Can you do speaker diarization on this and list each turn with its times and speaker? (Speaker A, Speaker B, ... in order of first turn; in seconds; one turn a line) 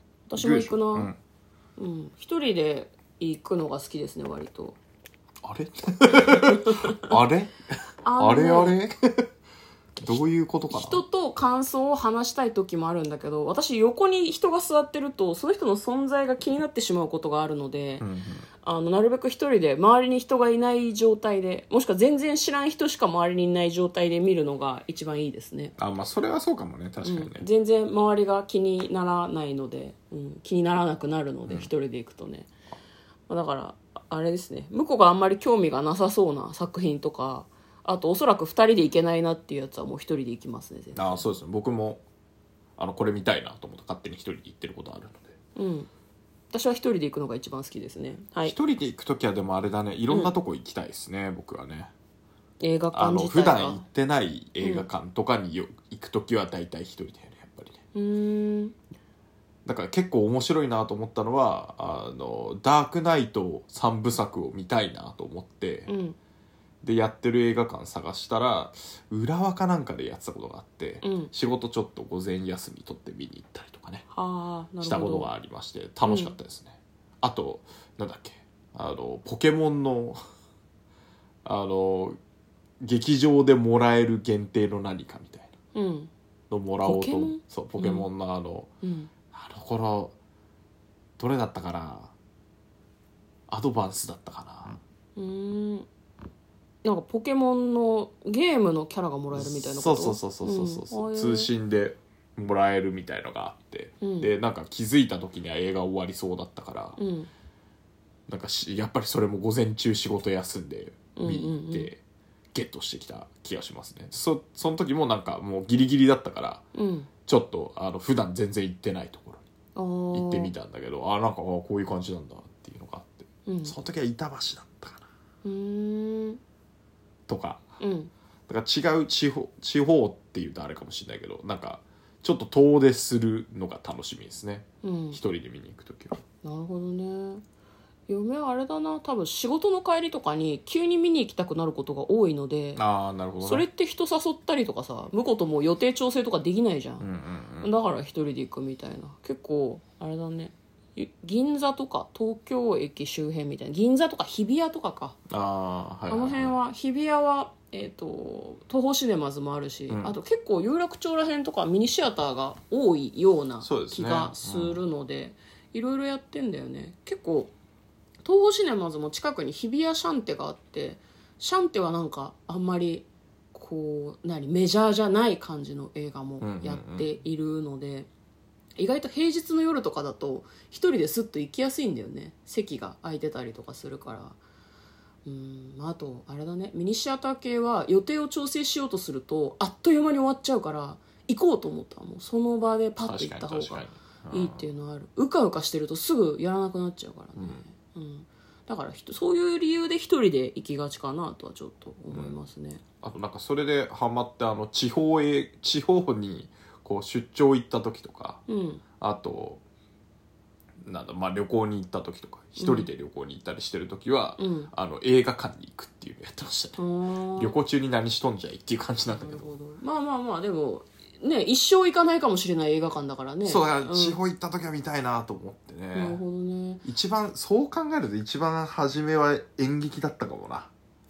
Speaker A: 0.3-1.1
Speaker B: 0.4-1.2
Speaker A: 1.8-4.8
Speaker B: 5.4-7.6
Speaker A: 6.3-7.0
Speaker A: 8.0-8.8
Speaker B: 8.2-9.3
Speaker B: 10.0-11.0
Speaker A: 10.7-18.0
Speaker B: 18.0-18.4
Speaker A: 18.6-25.7
Speaker B: 25.8-27.5
Speaker A: 27.0-32.5
Speaker A: 33.3-41.3
Speaker B: 41.0-42.0
Speaker B: 42.8-45.3
Speaker A: 45.5-45.9
Speaker A: 46.5-48.5
Speaker B: 48.4-51.9
Speaker A: 52.6-53.8
Speaker B: 52.9-57.8
Speaker A: 54.6-54.9
Speaker A: 57.9-58.7
Speaker B: 59.6-65.9
Speaker A: 65.9-66.2
Speaker B: 66.8-74.0
Speaker A: 71.0-71.3
Speaker A: 74.1-75.3
Speaker B: 74.8-80.2
Speaker A: 76.0-76.3
Speaker B: 81.4-82.2
Speaker B: 82.8-85.5
Speaker A: 85.7-86.1
Speaker B: 86.5-88.7
Speaker A: 86.8-88.0
Speaker A: 88.8-89.1
Speaker B: 89.3-90.1
Speaker B: 91.2-92.1
Speaker B: 93.5-94.8
Speaker A: 95.2-95.9
Speaker A: 96.8-101.5
Speaker B: 99.3-107.0
Speaker A: 104.0-104.3
Speaker A: 107.0-107.3
Speaker B: 108.3-112.0
Speaker A: 111.2-111.9
Speaker B: 112.5-116.6
Speaker A: 116.7-117.1
Speaker B: 117.3-119.4
Speaker A: 119.7-120.5
Speaker B: 120.1-125.0
Speaker A: 123.5-123.7
Speaker A: 125.4-126.4
Speaker B: 127.3-127.6
Speaker A: 127.8-128.1
Speaker B: 128.5-136.2
Speaker A: 134.8-135.2
Speaker A: 136.4-137.4
Speaker A: 138.1-142.8
Speaker B: 142.8-143.7
Speaker A: 143.4-147.0
Speaker B: 147.0-147.7
Speaker A: 147.6-155.2
Speaker B: 155.3-156.6
Speaker A: 156.1-167.5
Speaker B: 159.9-160.2
Speaker B: 163.6-164.8
Speaker A: 168.2-178.1
Speaker B: 176.4-177.1
Speaker A: 178.8-184.4
Speaker A: 185.2-202.8
Speaker B: 193.0-194.7
Speaker B: 197.4-197.6
Speaker B: 203.0-208.4
Speaker A: 208.5-208.8
Speaker B: 209.0-209.6
Speaker B: 210.8-216.8
Speaker A: 212.6-212.9
Speaker A: 214.4-214.7
Speaker A: 216.8-217.5
Speaker B: 217.4-219.5
Speaker A: 219.1-224.2
Speaker B: 223.4-226.2
Speaker A: 225.9-226.8
Speaker B: 226.8-230.7